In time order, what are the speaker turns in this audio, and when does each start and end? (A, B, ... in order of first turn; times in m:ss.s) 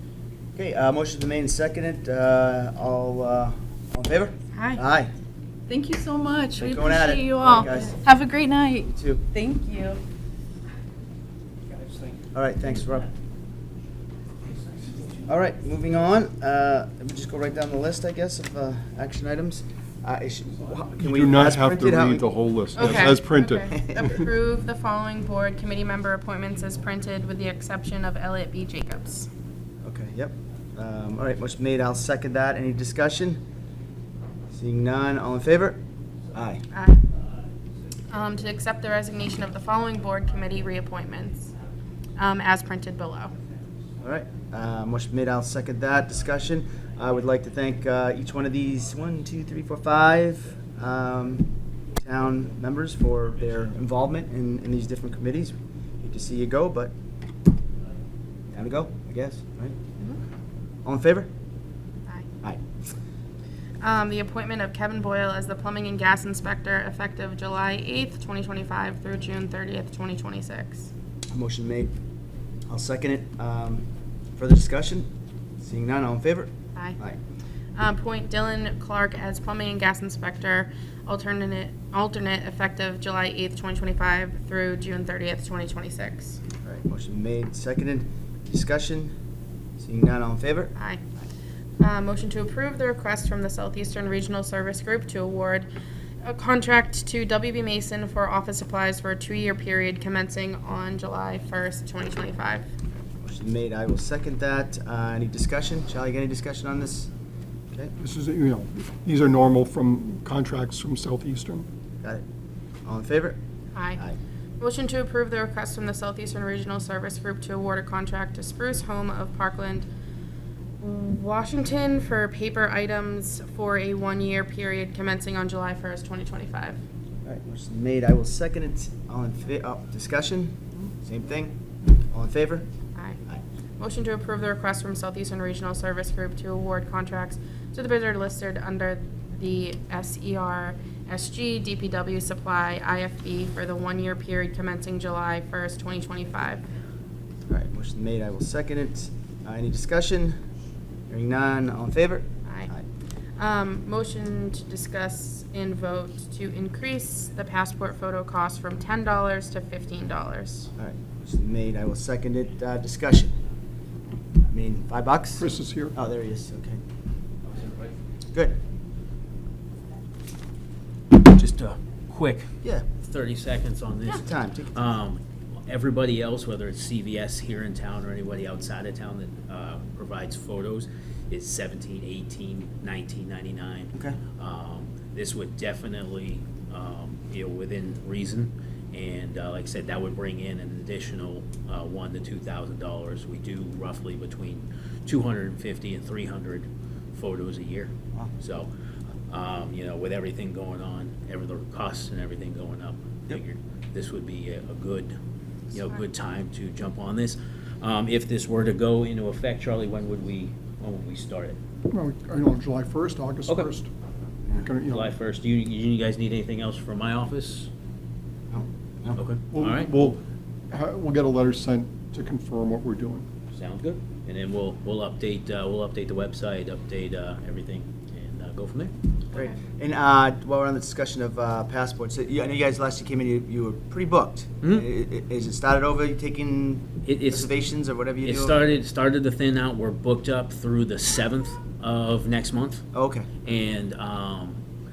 0:00.6-0:05.1 A
0:04.5-0:04.8 B
0:05.7-0:10.0 C
0:06.6-0:08.1 A
0:08.8-0:09.2 A
0:12.3-0:13.1 A
0:15.3-0:22.3 A
0:21.0-0:24.2 D
0:22.8-0:29.3 B
0:23.7-0:24.0 A
0:29.8-0:33.4 A
0:34.5-0:35.8 A
0:36.3-0:36.6 A
0:36.7-0:37.0 B
0:38.1-0:41.5 B
0:42.2-0:43.3 B
0:44.0-0:56.9 A
0:58.5-0:59.8 A
1:00.8-1:01.3 A
1:03.8-1:10.9 B
1:11.3-1:11.9 A
1:12.7-1:13.8 A
1:14.4-1:17.2 A
1:17.8-1:26.4 B
1:26.6-1:29.1 A
1:29.8-1:30.7 A
1:30.8-1:31.0 B
1:31.8-1:35.7 B
1:36.2-1:42.7 B
1:43.2-1:47.1 A
1:48.0-1:51.7 D
1:52.8-1:53.4 A
1:53.8-1:54.0 B
1:54.6-1:59.9 B
2:00.8-2:06.8 B
2:07.2-2:11.5 A
2:12.1-2:12.7 A
2:13.0-2:13.2 B
2:13.8-2:26.6 B
2:27.5-2:30.4 A
2:31.1-2:32.9 A
2:32.5-2:32.7 B
2:33.4-2:40.7 B
2:40.8-2:43.4 A
2:44.4-2:46.8 A
2:45.4-2:46.0 D
2:51.1-2:52.5 E
2:53.0-3:18.7 E
2:54.1-2:54.9 A
3:03.9-3:04.2 A
3:19.3-3:25.1 E
3:25.7-3:31.6 E
3:31.9-3:33.9 D
3:33.5-3:33.7 E
3:34.5-3:35.1 D
3:34.9-3:37.7 E
3:38.5-3:39.2 A
3:39.2-3:40.1 E
3:39.5-3:43.3 D
3:43.5-3:48.9 E
3:49.3-3:58.7 A
3:57.0-3:57.6 E
3:58.2-4:02.8 E
4:02.9-4:03.3 A
4:03.4-4:04.6 E